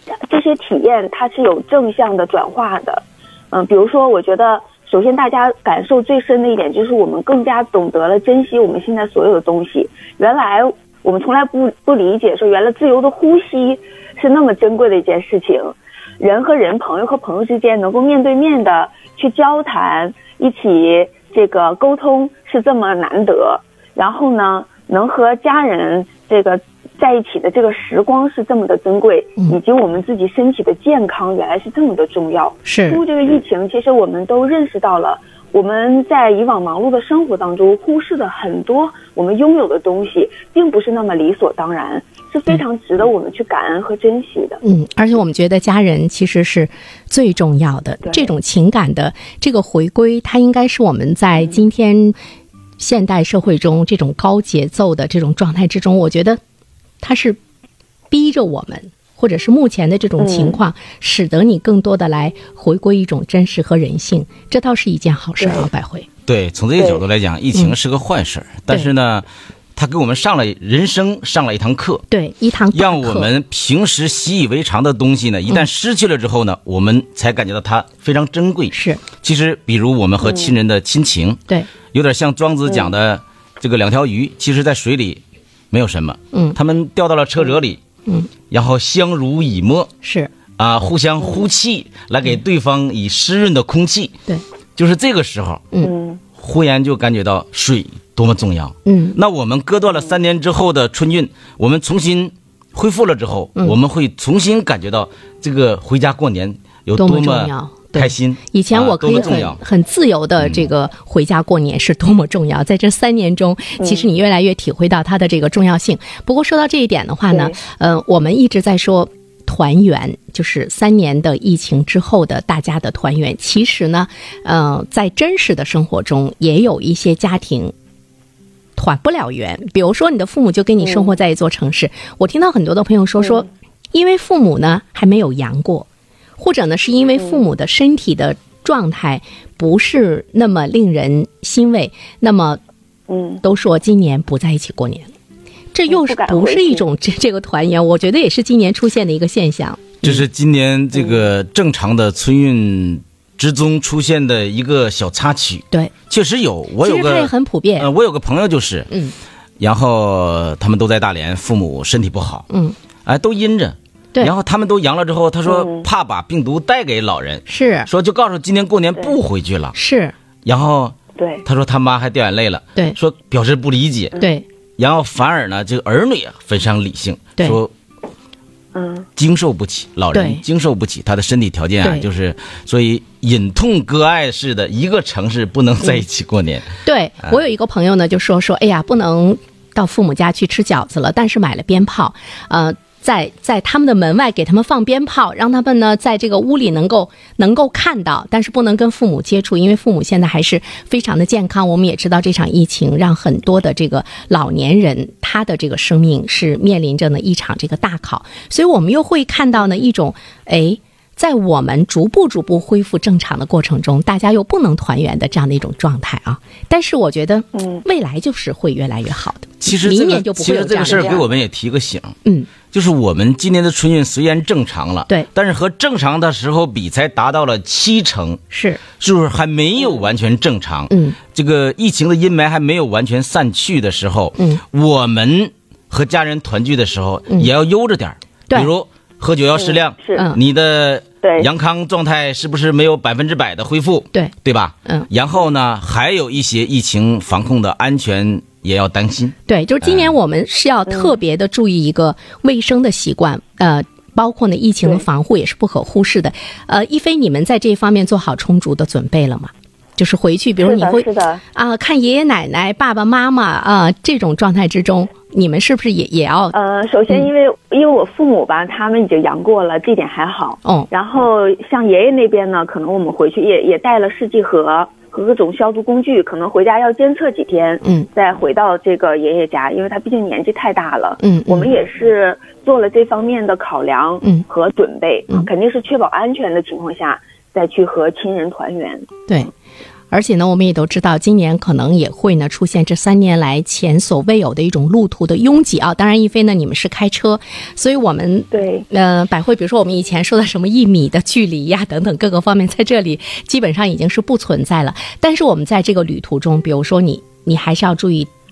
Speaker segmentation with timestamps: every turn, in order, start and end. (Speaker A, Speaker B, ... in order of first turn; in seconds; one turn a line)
Speaker A: 0.3-44.6
Speaker B: 32.6-33.0
Speaker B: 44.6-52.1
Speaker A: 48.0-48.3
Speaker B: 52.8-56.4
Speaker B: 57.0-57.4
Speaker B: 58.1-66.1
Speaker A: 60.2-60.6
Speaker A: 65.4-65.7
Speaker C: 66.3-72.0
Speaker A: 66.8-67.0
Speaker B: 72.1-73.3
Speaker C: 72.7-81.4
Speaker B: 78.7-79.0
Speaker C: 81.9-87.8
Speaker A: 82.7-82.9
Speaker B: 86.3-86.6
Speaker C: 88.5-89.9
Speaker B: 90.0-90.3
Speaker C: 90.6-94.1
Speaker A: 91.2-91.5
Speaker C: 94.8-95.7
Speaker A: 95.8-96.2
Speaker C: 96.3-109.6
Speaker B: 98.8-99.2
Speaker B: 107.0-127.7
Speaker A: 109.2-109.4
Speaker C: 110.4-110.7
Speaker A: 113.8-114.1
Speaker A: 117.3-117.6
Speaker B: 128.8-135.9
Speaker A: 130.8-131.1
Speaker B: 136.4-142.6
Speaker A: 137.2-137.4
Speaker A: 143.1-143.4
Speaker B: 143.4-145.1
Speaker B: 145.7-150.2
Speaker A: 145.9-146.9
Speaker C: 150.0-158.9
Speaker A: 150.9-151.2
Speaker B: 156.8-157.9
Speaker B: 158.9-159.1
Speaker C: 159.6-162.4
Speaker B: 162.5-162.8
Speaker C: 163.1-169.8
Speaker A: 165.5-165.9
Speaker B: 167.5-167.9
Speaker B: 169.7-170.1
Speaker C: 170.4-174.2
Speaker A: 171.2-171.4
Speaker B: 174.2-174.5
Speaker C: 174.8-177.7
Speaker A: 178.7-179.1
Speaker C: 179.2-186.7
Speaker B: 180.1-180.4
Speaker B: 181.8-182.1
Speaker B: 186.8-221.3
Speaker A: 217.6-217.8
Speaker C: 219.6-222.2
Speaker B: 222.2-222.5
Speaker C: 222.7-228.4
Speaker B: 228.5-228.8
Speaker C: 229.0-250.1
Speaker B: 230.9-231.2
Speaker B: 234.4-234.6
Speaker B: 237.3-237.5
Speaker B: 238.5-238.7
Speaker A: 239.6-240.3
Speaker B: 240.1-240.4
Speaker A: 241.2-241.5
Speaker B: 244.1-245.1
Speaker B: 249.5-266.5
Speaker A: 250.9-251.2
Speaker A: 260.6-261.4
Speaker A: 266.5-289.1
Speaker B: 270.6-270.9
Speaker B: 277.8-278.1
Speaker B: 281.2-281.7
Speaker B: 290.1-308.3
Speaker A: 298.5-298.9